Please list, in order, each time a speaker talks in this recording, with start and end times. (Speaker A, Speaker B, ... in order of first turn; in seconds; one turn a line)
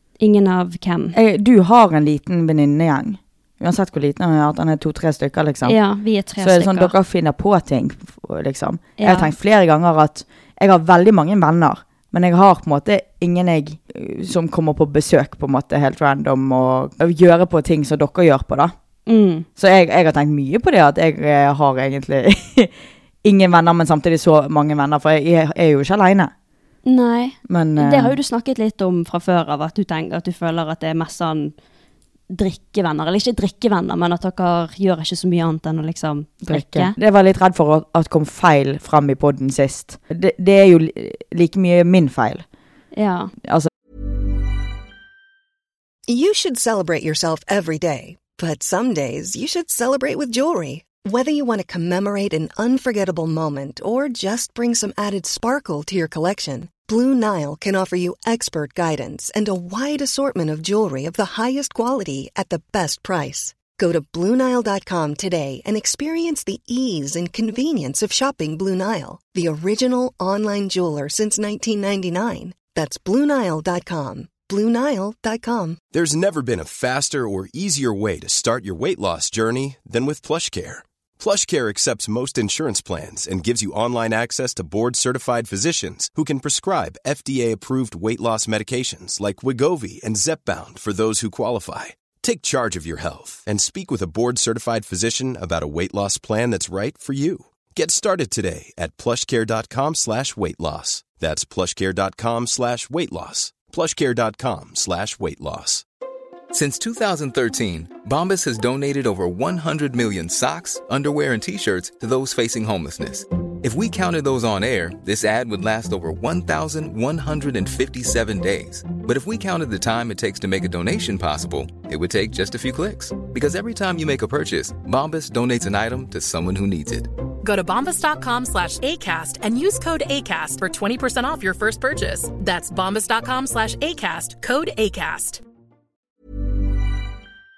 Speaker A: 0.2-1.2
Speaker B: 1.1-5.8
Speaker A: 5.6-6.9
Speaker B: 6.4-18.7
Speaker A: 9.0-9.3
Speaker A: 19.1-19.4
Speaker B: 19.6-22.7
Speaker B: 23.2-26.3
Speaker A: 26.8-31.5
Speaker B: 27.5-28.2
Speaker A: 32.3-36.9
Speaker B: 36.4-42.4
Speaker A: 42.9-43.3
Speaker B: 43.4-43.7
Speaker C: 46.1-75.8
Speaker D: 75.9-105.8
Speaker E: 106.5-127.1
Speaker F: 127.4-135.4